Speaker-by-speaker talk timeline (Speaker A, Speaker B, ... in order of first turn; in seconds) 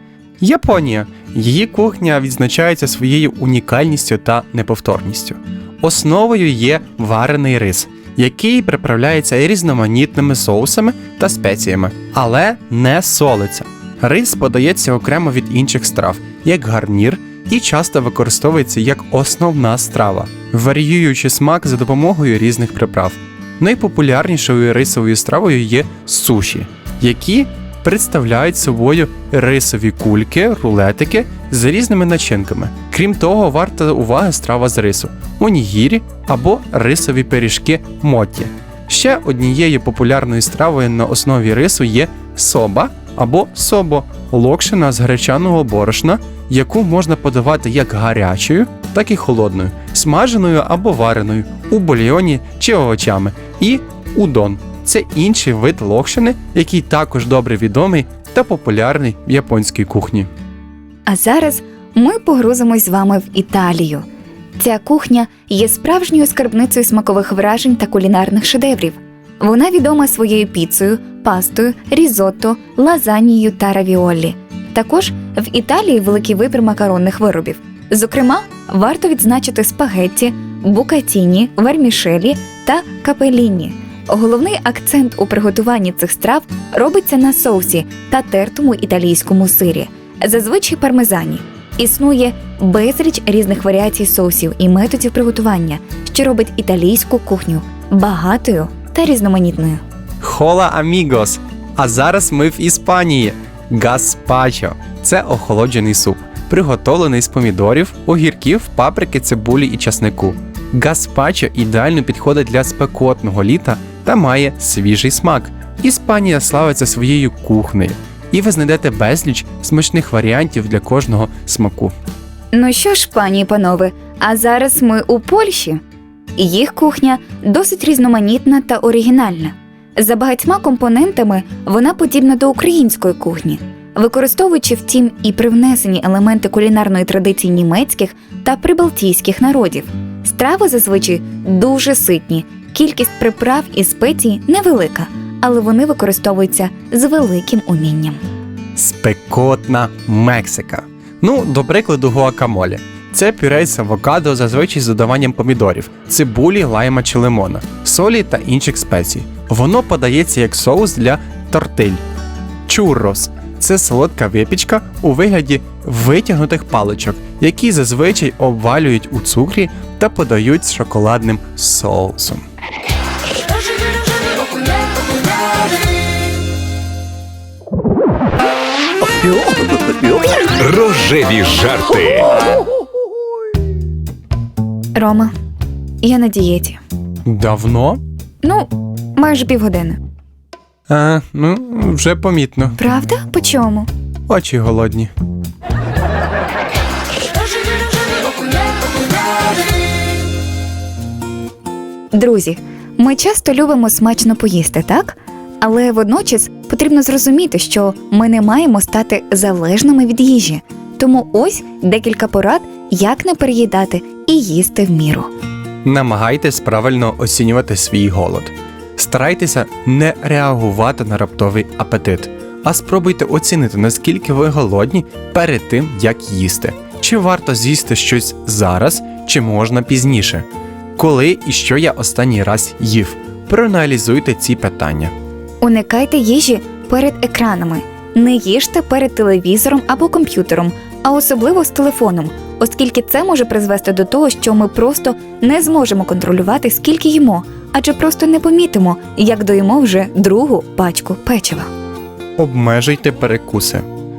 Speaker A: 0.4-60.3, 100.2-121.9, 148.8-162.0, 162.7-172.4, 187.3-188.0, 190.9-192.8, 194.3-195.1, 215.8-230.4, 231.0-235.1, 252.4-253.9
Speaker B: 61.1-64.0, 64.6-99.8, 122.5-125.8, 126.4-148.2, 184.9-185.3, 186.0-186.8, 188.4-190.0, 192.8-193.9, 202.1-215.3, 235.6-251.7
Speaker C: 179.2-179.8, 180.4-182.4